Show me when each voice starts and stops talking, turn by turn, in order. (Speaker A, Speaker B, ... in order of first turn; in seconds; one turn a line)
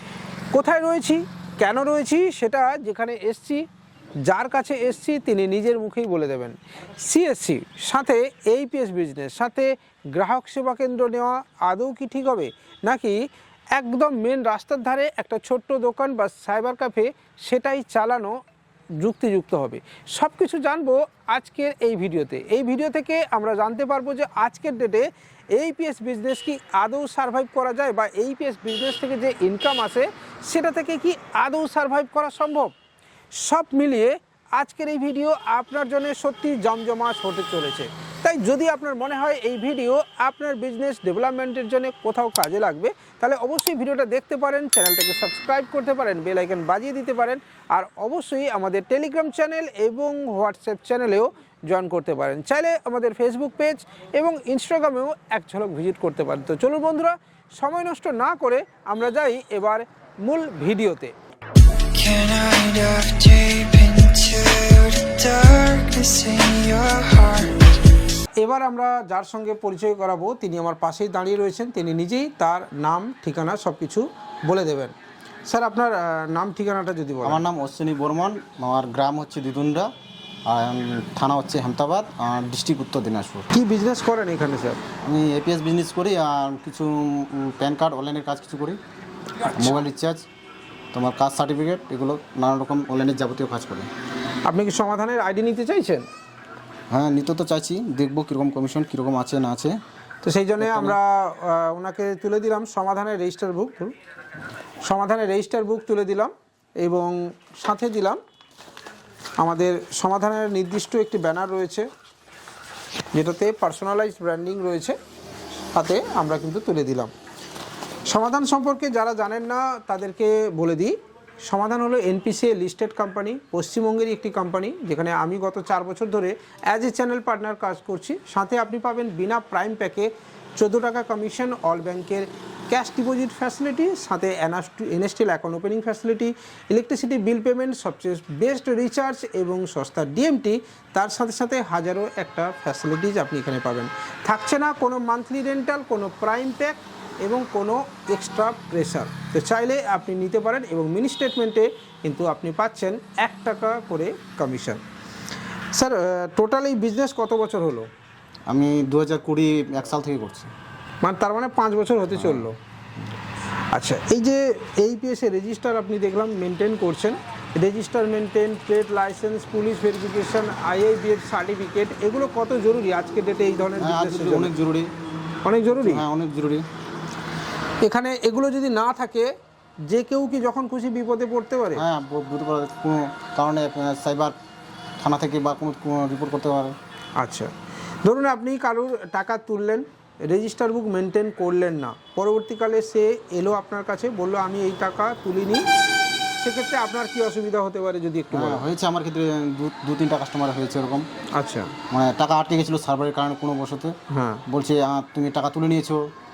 Speaker A: 0.5-3.7
Speaker A: 4.3-18.4
Speaker A: 19.0-32.7
Speaker A: 33.3-61.1
Speaker B: 61.9-67.5
Speaker A: 68.4-74.9
Speaker A: 75.5-77.4
Speaker C: 77.2-79.9
Speaker C: 80.5-83.5
Speaker A: 83.5-84.8
Speaker C: 85.0-88.8
Speaker A: 89.4-89.8
Speaker C: 89.5-90.2
Speaker C: 90.9-93.9
Speaker A: 94.5-96.1
Speaker C: 96.9-99.8
Speaker A: 100.2-103.9
Speaker C: 100.6-101.0
Speaker A: 104.8-108.2
Speaker A: 109.4-111.9
Speaker A: 113.1-115.0
Speaker A: 115.7-117.1
Speaker A: 118.1-154.8
Speaker A: 155.7-157.9
Speaker C: 158.5-160.5
Speaker A: 161.0-162.6
Speaker C: 162.2-162.4
Speaker A: 163.7-174.5
Speaker C: 173.8-174.9
Speaker A: 175.4-176.1
Speaker C: 175.7-176.7
Speaker A: 177.8-179.3
Speaker A: 179.8-181.8
Speaker C: 181.7-184.3
Speaker C: 185.0-186.8
Speaker A: 187.2-187.5
Speaker A: 188.0-195.7
Speaker A: 196.4-198.7
Speaker C: 198.3-201.1
Speaker A: 201.3-201.8
Speaker C: 201.9-206.1
Speaker A: 204.1-204.4